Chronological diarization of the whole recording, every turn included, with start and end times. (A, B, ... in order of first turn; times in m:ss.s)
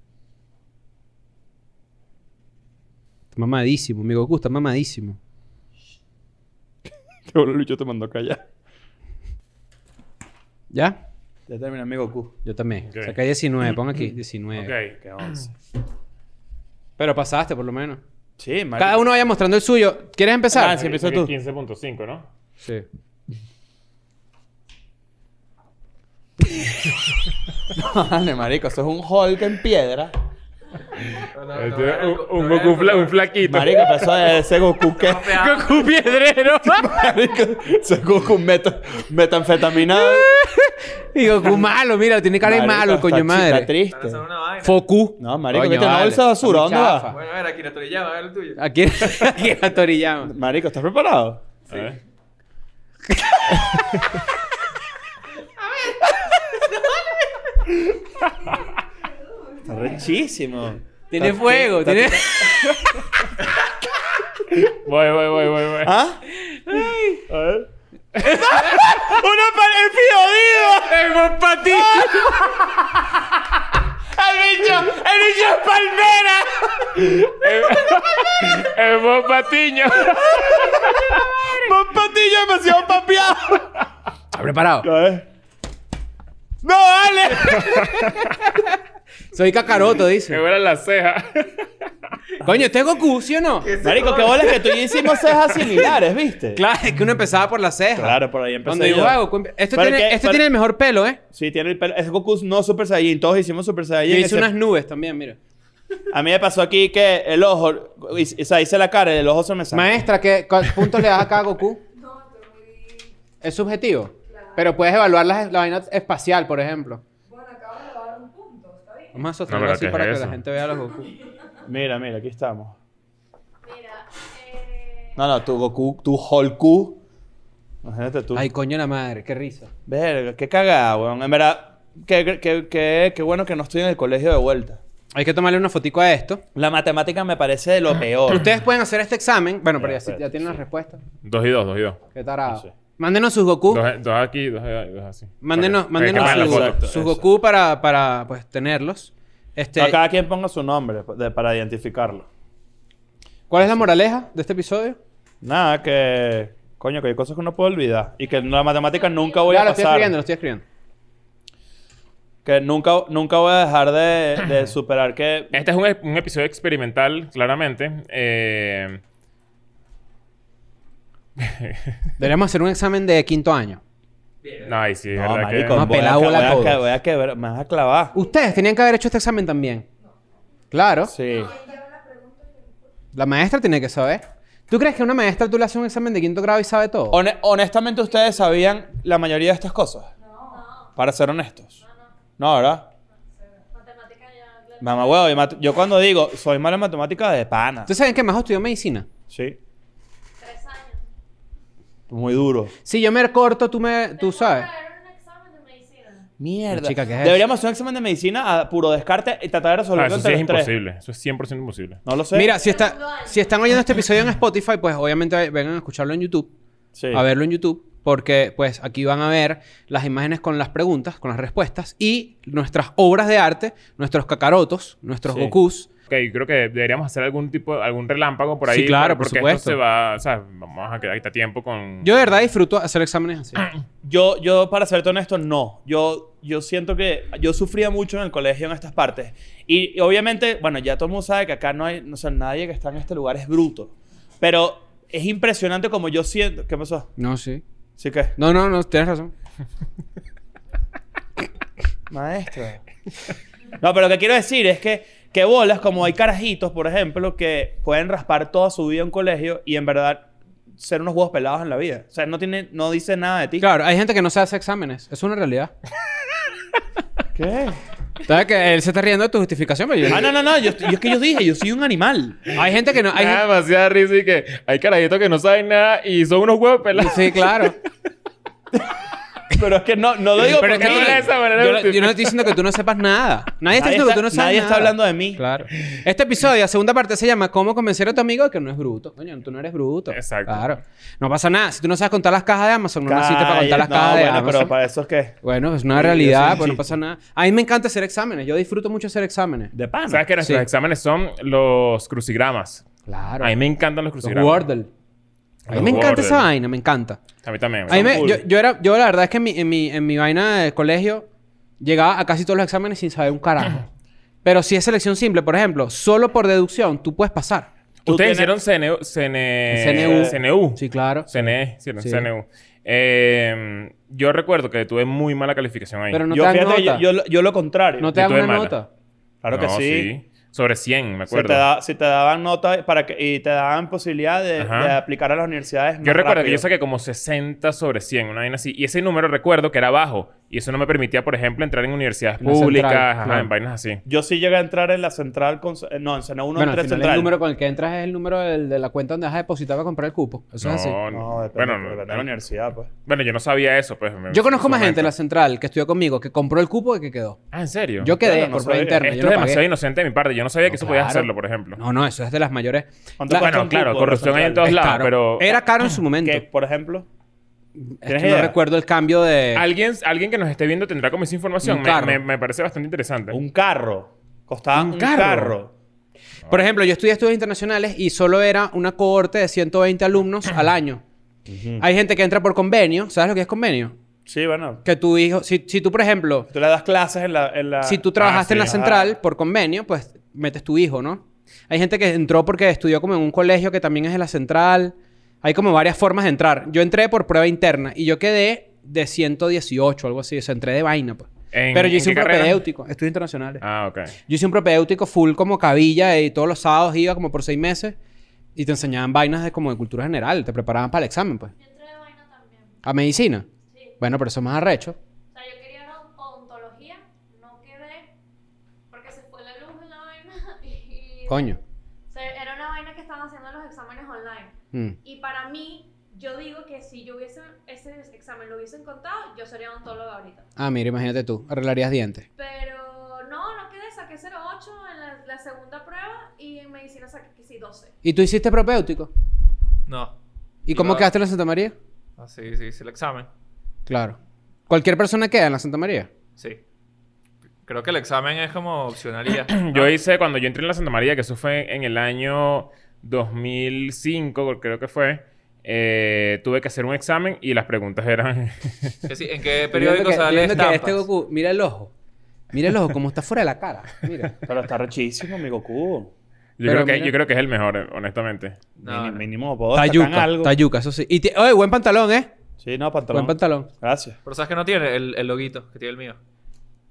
0:03.3-0:05.2 A
0:07.3-0:08.4 B
0:10.7-0:11.0 A
0:11.5-0:12.3 B
0:12.4-0:14.7 A
0:12.9-0:13.1 C
0:14.6-0:15.4 C
0:15.0-0:15.5 B
0:17.0-0:18.0 A
0:18.4-0:19.1 B
0:18.8-0:20.8 A
0:20.5-0:21.3 B
0:20.7-0:22.2 C
0:27.7-0:30.1 B
0:31.2-0:33.1 D
0:31.5-0:34.1 C
0:33.4-0:35.3 B
0:34.9-0:36.0 D
0:35.4-0:37.0 A
0:36.6-0:40.4 B
0:39.9-0:43.7 A
0:42.4-0:44.2 B
0:43.9-0:44.8 D
0:44.6-0:47.2 A
0:45.2-0:47.1 B
0:47.1-0:48.6 D
0:48.6-0:50.3 A
0:50.2-0:51.4 B
0:51.7-0:52.0 C
0:53.6-0:54.2 C
0:58.4-1:00.0 E
0:59.6-1:02.8 B
1:01.1-1:03.0 A
1:04.6-1:05.9 C
1:05.8-1:06.2 B
1:06.4-1:07.2 A
1:07.3-1:12.9 B
1:08.2-1:08.8 A
1:10.8-1:12.8 A
1:14.1-1:17.3 B
1:17.2-1:21.3 C
1:20.1-1:23.7 B
1:24.3-1:24.9 A
1:24.8-1:25.2 B
1:26.6-1:28.1 B
1:27.6-1:28.2 C
1:28.4-1:28.7 A
1:29.3-1:30.4 A
1:30.3-1:31.7 C
1:32.4-1:33.7 A
1:33.6-1:34.8 D
1:33.8-1:36.6 B
1:36.5-1:41.2 A
1:38.0-1:39.2 B
1:39.7-1:40.4 B
1:41.3-1:44.5 B
1:44.1-1:45.4 A
1:46.1-1:50.0 B
1:49.7-1:51.8 A
1:51.9-1:53.2 E
1:53.4-1:57.0 A
1:54.2-1:54.6 E
1:57.2-1:59.2 E
1:59.1-2:01.1 A
1:59.5-2:00.4 C
2:01.6-2:02.8 B
2:03.6-2:05.2 F
2:05.2-2:07.0 B
2:07.8-2:08.5 B
2:08.3-2:09.7 A
2:09.9-2:14.8 B
2:15.1-2:16.4 A
2:16.5-2:18.5 B
2:18.3-2:21.0 A
2:19.8-2:20.5 B
2:21.2-2:22.0 C
2:22.1-2:23.8 A
2:23.7-2:26.8 C
2:25.4-2:30.0 A
2:26.1-2:27.3 B
2:29.8-2:32.3 B
2:33.5-2:35.0 A
2:35.4-2:40.1 B
2:38.9-2:39.4 F
2:39.4-2:40.6 A
2:42.4-2:45.6 B
2:45.5-2:49.0 C
2:51.4-2:51.9 C
2:52.2-2:53.8 A
2:54.4-2:54.8 D
2:54.6-2:56.1 C
2:55.1-2:58.1 B
2:55.7-2:56.8 A
2:58.1-2:59.8 A
2:58.2-2:58.4 E
3:00.7-3:01.1 A
3:01.1-3:01.5 B
3:01.3-3:01.7 F
3:01.3-3:02.9 E
3:03.1-3:07.2 A
3:07.1-3:10.1 B
3:10.2-3:10.7 E
3:10.5-3:10.9 F
3:11.0-3:11.8 B
3:11.8-3:12.2 F
3:12.4-3:12.9 B
3:13.7-3:15.3 F
3:14.8-3:17.9 B
3:17.9-3:19.1 A
3:19.3-3:19.6 B
3:20.4-3:21.0 F
3:22.1-3:22.7 B
3:22.8-3:24.7 A
3:24.2-3:26.3 F
3:26.4-3:30.7 B
3:26.7-3:27.4 A
3:30.0-3:32.0 C
3:32.0-3:32.5 B
3:32.3-3:36.5 A
3:32.4-3:33.8 F
3:36.9-3:37.2 B
3:37.1-3:45.9 A
3:45.3-3:45.5 B
3:46.1-3:52.4 C
3:48.7-3:49.8 A
3:52.0-3:53.7 A
3:54.0-4:07.1 B
4:07.2-4:07.6 A
4:08.0-4:08.3 B
4:08.4-4:09.3 A
4:12.1-4:12.8 B
4:13.8-4:23.6 B
4:23.6-4:25.7 A
4:27.3-4:27.8 B
4:28.2-4:30.3 A
4:30.1-4:32.6 B
4:32.5-4:37.8 C
4:32.6-4:33.4 A
4:37.0-4:37.8 A
4:39.5-4:41.3 B
4:40.5-4:54.7 A
4:40.6-4:42.5 C
4:43.7-4:45.4 B
4:50.1-4:50.7 C
4:53.0-4:55.4 B
4:55.4-4:59.7 A
4:55.9-4:56.9 B
4:59.7-5:00.2 B
5:00.1-5:02.8 C
5:03.1-5:03.5 A
5:03.4-5:04.6 C
5:04.2-5:04.9 A
5:05.6-5:06.5 C
5:05.7-5:07.2 A
5:07.4-5:08.3 C
5:07.9-5:08.4 B
5:07.9-5:11.3 A
5:11.8-5:13.8 A
5:14.4-5:17.7 A
5:18.0-5:26.2 C
5:18.0-5:18.5 B
5:19.7-5:22.3 A
5:19.9-5:20.4 B
5:26.1-5:27.0 A
5:26.3-5:28.1 B
5:28.0-5:28.9 A
5:28.1-5:28.7 C
5:29.4-5:30.1 B
5:29.5-5:31.6 C
5:31.3-5:36.6 B
5:34.6-5:35.0 C
5:36.0-5:44.0 C
5:42.4-5:43.5 A
5:44.0-5:47.3 B
5:46.6-5:51.0 A
5:50.6-5:52.3 C
5:51.1-5:52.9 B
5:53.0-5:55.1 C
5:54.3-5:57.4 A
5:57.5-5:58.1 C
5:58.0-5:59.6 A
5:58.2-5:59.1 B
5:59.0-6:01.8 C
6:00.7-6:03.5 A
6:03.2-6:04.8 B
6:03.4-6:05.6 C
6:04.6-6:06.4 A
6:06.2-6:07.0 B
6:07.8-6:09.6 A
6:08.0-6:08.5 B
6:09.5-6:13.4 C
6:11.6-6:12.2 A
6:13.3-6:15.7 B
6:14.7-6:15.6 A
6:16.5-6:21.0 A
6:21.5-6:21.8 B
6:21.8-6:24.0 A
6:24.2-6:24.8 B
6:24.8-6:26.5 A
6:26.5-6:29.1 B
6:27.8-6:43.6 A
6:28.2-6:28.8 C
6:41.5-6:42.6 C
6:43.6-6:44.1 C
6:44.3-6:48.0 A
6:48.5-6:51.5 A
6:51.6-6:52.8 F
6:52.8-6:53.4 A
6:53.6-6:54.0 F
6:54.0-6:55.0 A
6:55.3-6:58.1 F
6:58.9-7:01.6 F
7:01.3-7:01.6 A
7:02.1-7:10.5 F
7:10.6-7:12.2 A
7:12.4-7:17.9 F
7:18.0-7:19.1 A
7:19.8-7:20.1 D
7:20.6-7:21.7 A
7:20.7-7:21.1 D
7:22.2-7:23.3 D
7:23.9-7:24.2 A
7:24.7-7:26.1 A
7:27.6-7:29.9 D
7:29.5-7:39.0 C
7:39.1-7:41.0 D
7:39.7-7:41.9 A
7:42.5-7:44.4 A
7:44.4-7:46.1 B
7:46.6-7:48.6 C
7:46.6-7:47.1 A
7:48.8-7:50.6 B
7:48.8-7:49.2 D
7:49.7-7:52.3 A
7:52.6-7:54.2 B
7:53.1-7:53.7 A
7:54.2-7:56.2 D